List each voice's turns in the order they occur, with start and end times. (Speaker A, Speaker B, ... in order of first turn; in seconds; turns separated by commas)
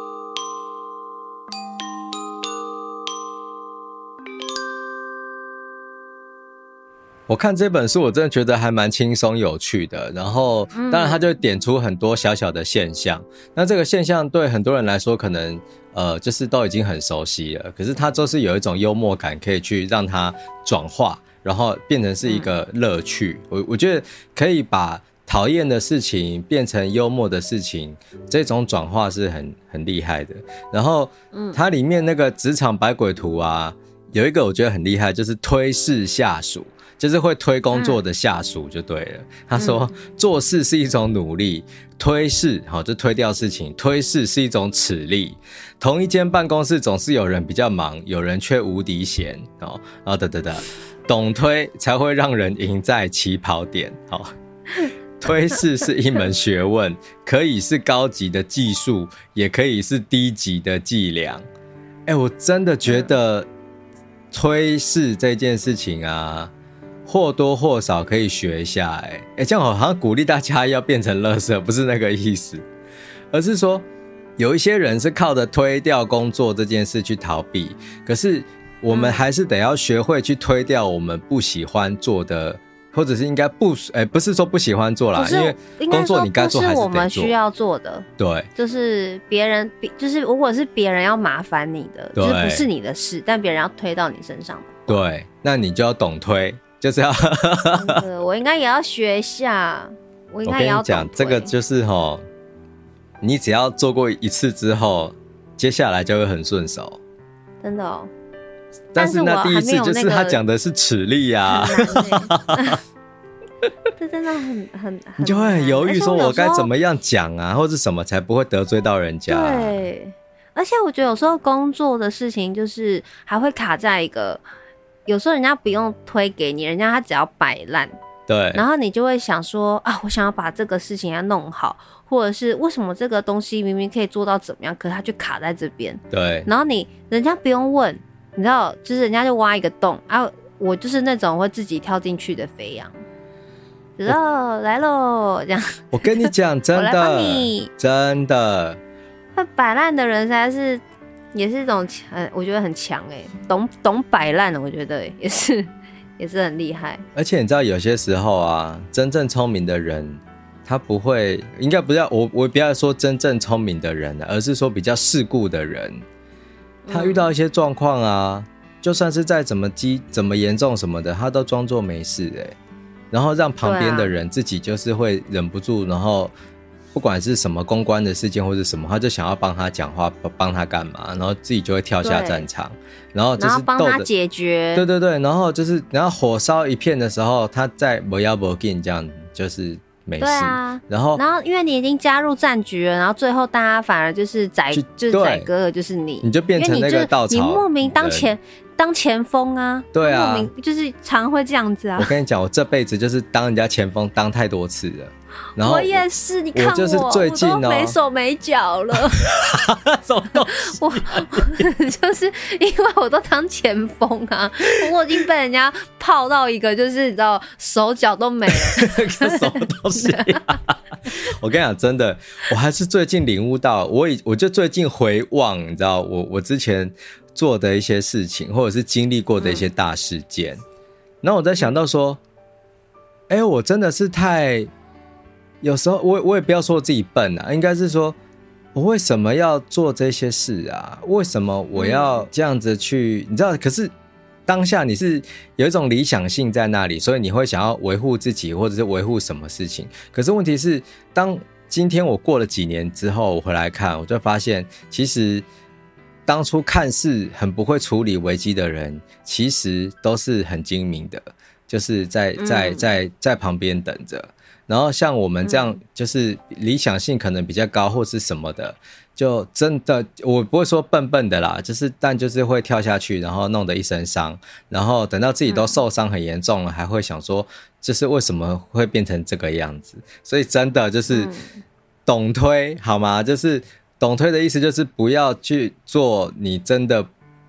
Speaker A: 7.3-54.3, Speaker B: 10.7-11.2, Speaker B: 31.3-31.6, Speaker B: 37.7-38.0, Speaker B: 39.5-39.9, Speaker A: 54.8-61.4, Speaker A: 62.1-63.5, Speaker B: 62.9-63.1, Speaker A: 64.3-66.5, Speaker A: 67.1-72.6, Speaker A: 73.3-73.8, Speaker A: 74.4-87.3, Speaker B: 78.9-79.2, Speaker B: 85.2-95.0, Speaker A: 88.2-88.5, Speaker A: 92.2-92.7, Speaker A: 94.9-98.0, Speaker B: 97.8-101.5, Speaker A: 100.4-102.2, Speaker A: 103.2-107.0, Speaker B: 107.6-108.1, Speaker A: 108.9-112.8, Speaker B: 109.0-110.4, Speaker B: 111.5-112.8, Speaker B: 114.0-116.7, Speaker A: 115.2-119.8, Speaker B: 119.3-124.4, Speaker B: 125.0-128.0, Speaker A: 128.3-128.6, Speaker B: 128.5-142.9, Speaker A: 136.1-136.5, Speaker B: 144.0-147.7, Speaker A: 145.9-148.8, Speaker B: 149.3-157.0, Speaker A: 157.1-166.0, Speaker B: 166.8-167.3, Speaker A: 166.9-172.5, Speaker A: 173.1-176.3, Speaker B: 173.6-174.1, Speaker A: 176.9-184.1, Speaker B: 182.0-182.5, Speaker B: 183.4-184.8, Speaker A: 184.7-191.2, Speaker B: 190.2-202.1, Speaker A: 194.7-195.5, Speaker A: 196.2-198.3, Speaker A: 199.9-200.5, Speaker A: 202.0-208.0, Speaker B: 205.6-209.2, Speaker A: 209.2-211.7, Speaker B: 210.5-219.4, Speaker A: 218.5-230.6, Speaker B: 220.0-220.4, Speaker B: 229.4-229.6, Speaker A: 231.2-232.2, Speaker A: 233.3-234.7, Speaker A: 235.6-238.2, Speaker A: 238.7-243.9, Speaker B: 241.7-242.3, Speaker A: 244.5-255.4, Speaker A: 256.3-281.3, Speaker B: 262.4-262.9, Speaker B: 265.4-265.8, Speaker B: 275.5-275.8, Speaker B: 281.1-281.6, Speaker A: 282.1-287.1